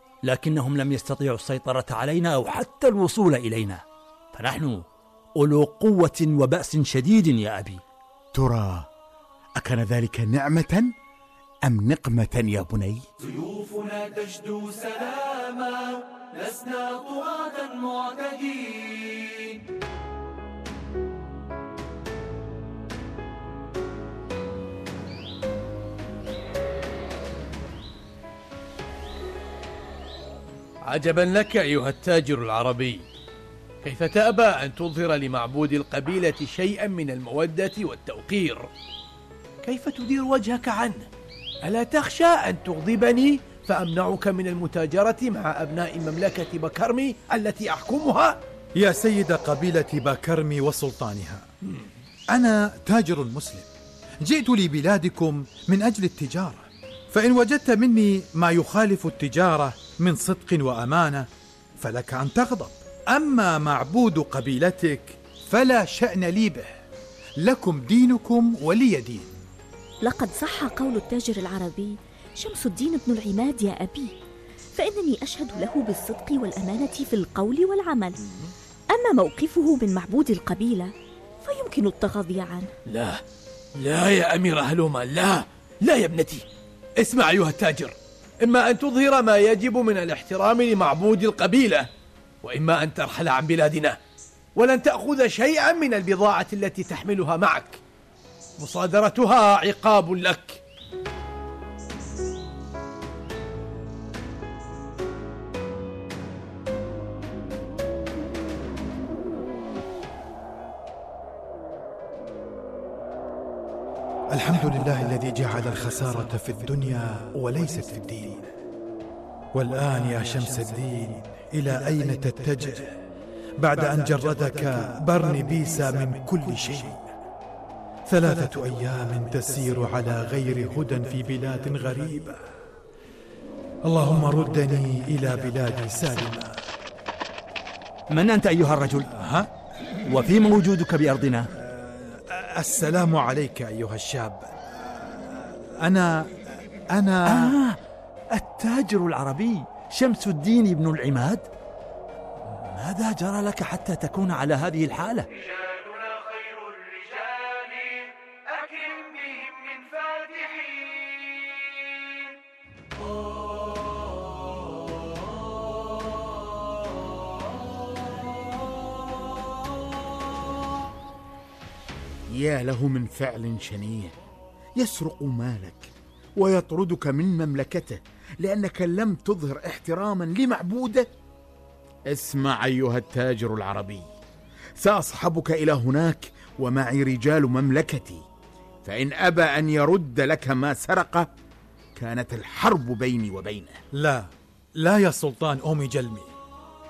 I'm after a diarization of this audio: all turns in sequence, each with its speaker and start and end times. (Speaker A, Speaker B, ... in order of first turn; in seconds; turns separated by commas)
Speaker A: 0.2-4.8, Speaker A: 5.4-7.8, Speaker B: 8.3-8.9, Speaker B: 9.6-10.9, Speaker B: 11.6-13.0, Speaker C: 13.7-15.3, Speaker C: 16.4-19.4, Speaker D: 30.9-33.0, Speaker D: 33.8-38.7, Speaker D: 39.6-41.1, Speaker D: 41.6-48.4, Speaker E: 48.7-51.4, Speaker E: 52.3-53.7, Speaker E: 54.2-61.3, Speaker E: 61.8-66.7, Speaker E: 67.4-69.3, Speaker F: 70.0-74.1, Speaker F: 74.7-78.1, Speaker F: 78.9-80.9, Speaker F: 81.4-82.7, Speaker D: 82.9-83.2, Speaker D: 83.8-86.4, Speaker D: 87.0-91.9, Speaker D: 92.4-94.0, Speaker D: 94.5-97.8, Speaker D: 98.6-100.6, Speaker E: 114.3-118.5, Speaker E: 119.5-123.0, Speaker E: 123.6-127.1, Speaker E: 128.1-132.4, Speaker E: 133.8-136.6, Speaker A: 138.1-139.1, Speaker E: 139.2-139.5, Speaker A: 140.1-141.5, Speaker E: 141.6-144.5, Speaker E: 145.3-147.5, Speaker A: 147.2-147.8, Speaker A: 148.3-151.5, Speaker A: 152.5-155.3, Speaker C: 155.5-161.4, Speaker B: 172.3-174.1, Speaker B: 174.8-181.1, Speaker B: 182.1-184.1, Speaker B: 184.8-188.2, Speaker B: 188.8-191.3, Speaker B: 191.9-193.8, Speaker E: 193.9-196.3